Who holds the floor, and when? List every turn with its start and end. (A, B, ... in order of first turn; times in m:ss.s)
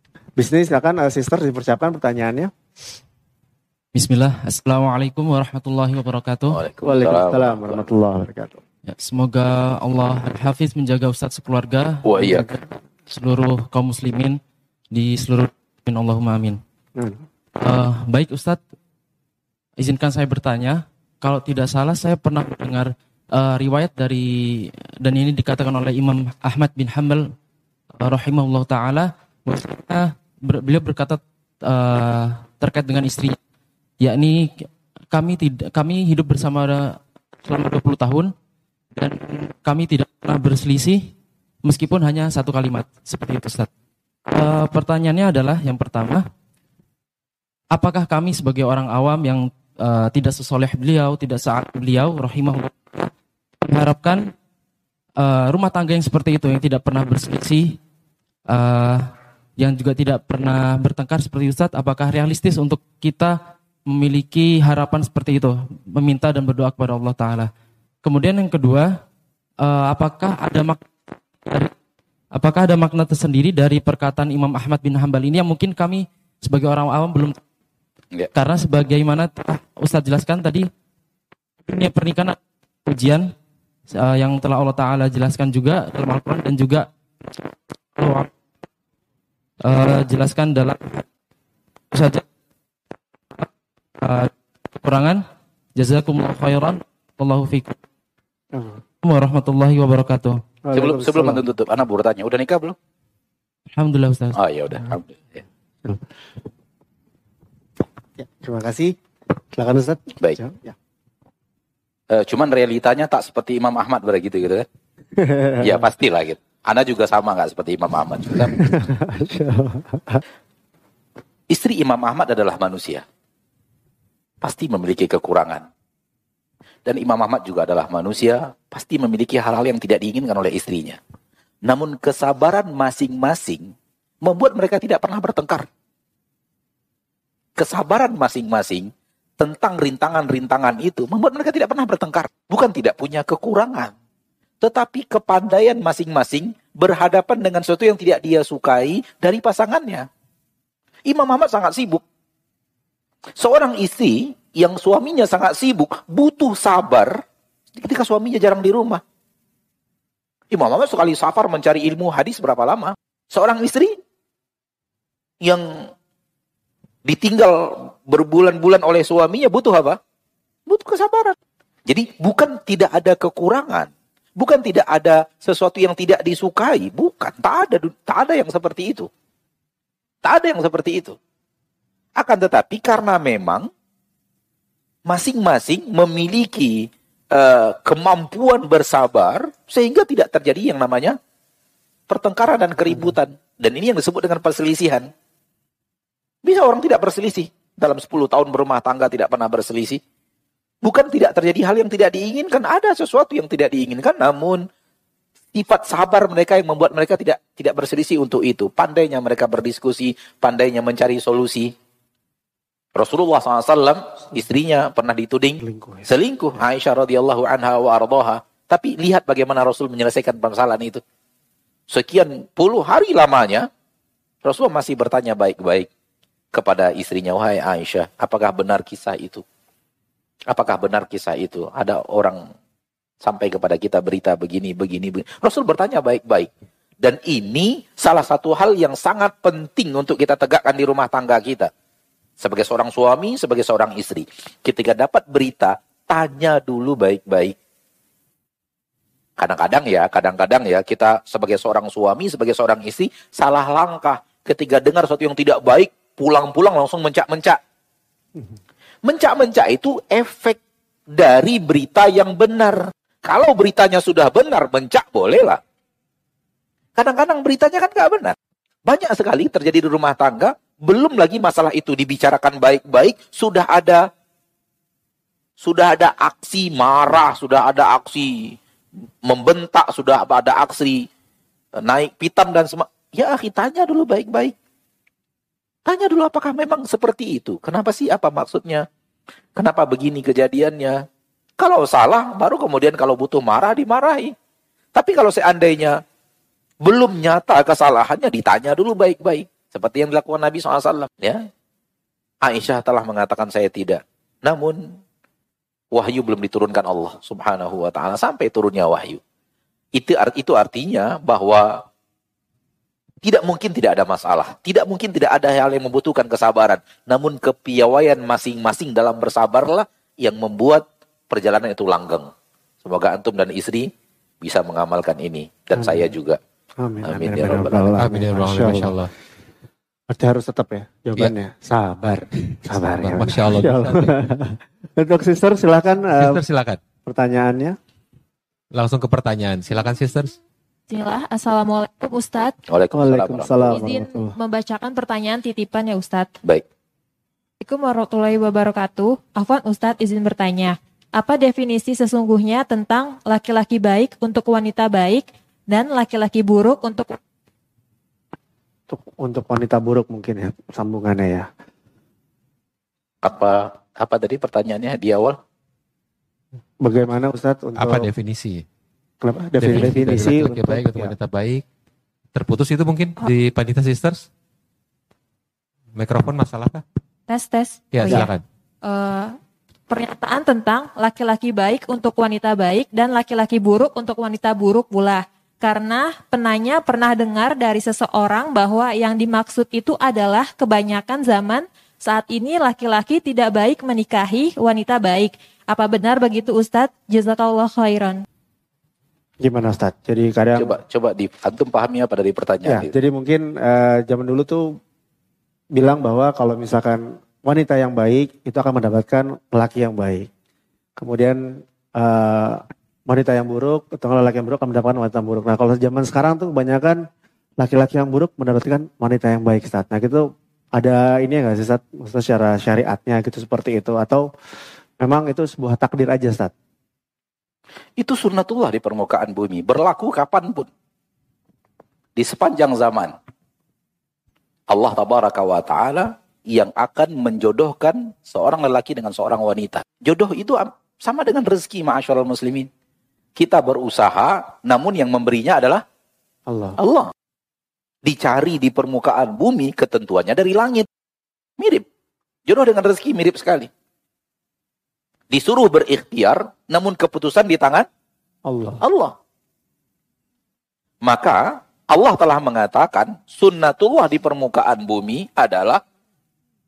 0:00.4-0:02.5 A
0:03.9-0:06.6 B
0:06.5-0:07.9 C
0:06.8-0:08.6 A
0:08.9-0:14.4 B
0:12.0-0:12.5 C
0:14.9-0:16.6 B
0:17.0-0:17.3 A
0:17.6-0:18.6 B
0:19.8-0:27.3 B
0:28.0-0:33.4 B
0:34.0-0:38.3 B
0:39.0-0:41.1 B
0:41.6-0:43.7 B
0:44.3-0:46.3 B
0:47.7-0:53.1 B
0:53.6-0:54.3 B
0:55.2-0:57.8 B
0:58.5-1:03.4 B
1:03.9-1:07.5 B
1:08.0-1:09.0 B
1:09.6-1:10.9 B
1:11.4-1:11.7 B
1:12.3-1:17.4 B
1:18.3-1:20.7 B
1:21.7-1:23.3 B
1:23.9-1:26.9 B
1:28.0-1:28.3 B
1:29.6-1:31.0 B
1:31.9-1:32.2 B
1:34.0-1:35.2 B
1:35.8-1:37.8 B
1:38.5-1:38.8 A
1:39.0-1:40.4 B
1:40.6-1:41.4 A
1:40.7-1:42.8 C
1:43.7-1:44.4 B
1:44.3-1:45.4 C
1:48.2-1:49.0 A
1:49.5-1:50.7 A
1:52.1-1:54.7 C
1:55.2-1:55.8 A
1:55.6-1:58.5 C
1:58.4-2:00.2 A
2:01.5-2:03.0 C
2:04.4-2:05.7 C
2:06.8-2:11.0 C
2:11.7-2:13.7 C
2:14.2-2:15.7 C
2:17.6-2:23.9 C
2:24.6-2:30.1 C
2:31.1-2:32.0 C
2:33.4-2:37.2 C
2:37.8-2:39.0 C
2:40.5-2:44.0 C
2:45.4-2:45.9 C
2:47.0-2:50.0 C
2:50.7-2:51.4 C
2:51.9-2:59.1 C
3:00.2-3:01.2 C
3:02.2-3:03.7 C
3:05.1-3:11.2 C
3:12.1-3:15.1 C
3:16.4-3:20.0 C
3:20.8-3:24.6 C
3:25.5-3:31.7 C
3:33.0-3:41.0 C
3:35.6-3:36.1 A
3:41.9-3:43.7 C
3:44.4-3:45.9 C
3:46.5-3:49.4 C
3:50.5-3:52.4 C
3:53.2-3:56.5 C
3:57.0-4:01.7 C
4:02.4-4:07.6 C
4:09.4-4:17.6 C
4:19.0-4:20.6 C
4:21.1-4:25.6 C
4:27.0-4:28.3 C
4:28.9-4:34.0 C
4:35.6-4:38.6 C
4:39.3-4:41.1 C
4:41.8-4:44.5 C
4:45.9-4:48.9 C
4:49.6-4:51.0 C
4:51.6-4:54.3 C
4:55.0-4:56.0 C
4:56.8-5:01.4 C
5:02.4-5:04.8 C
5:05.9-5:09.2 C
5:10.0-5:11.8 C
5:13.2-5:22.3 C
5:22.8-5:23.9 C
5:24.4-5:26.4 C
5:25.8-5:26.1 A
5:26.8-5:29.0 A
5:27.0-5:28.0 C
5:28.0-5:29.1 D
5:30.1-5:36.4 A
5:33.0-5:34.1 D
5:36.2-5:36.8 D
5:37.0-5:37.8 A
5:38.7-5:40.3 D
5:40.9-5:42.6 E
5:42.7-5:43.8 C
5:42.9-5:44.3 A
5:43.7-5:46.3 E
5:47.6-5:57.2 E
5:58.9-6:01.5 A
6:03.2-6:05.4 C
6:06.8-6:08.1 A
6:07.8-6:08.6 D
6:09.2-6:11.1 A
6:09.6-6:11.6 D
6:12.3-6:14.3 D
6:15.9-6:16.8 D
6:17.3-6:18.3 E
6:17.9-6:18.4 D
6:18.8-6:19.4 E
6:19.9-6:38.2 E
6:39.4-6:40.7 A
6:40.6-6:43.0 C
6:42.6-6:44.8 A
6:45.7-6:50.3 A
6:51.0-6:57.0 A
6:57.6-7:04.3 A
7:05.0-7:06.5 A
7:08.0-7:10.7 C
7:12.2-7:13.1 C
7:14.7-7:22.7 C
7:23.4-7:25.8 C
7:26.5-7:26.8 A
7:26.8-7:27.1 C
7:28.0-7:30.9 C
7:31.6-7:31.8 C
7:32.5-7:33.7 C
7:35.3-7:37.9 C
7:38.4-7:38.8 A
7:38.8-7:39.1 C
7:41.0-7:45.8 C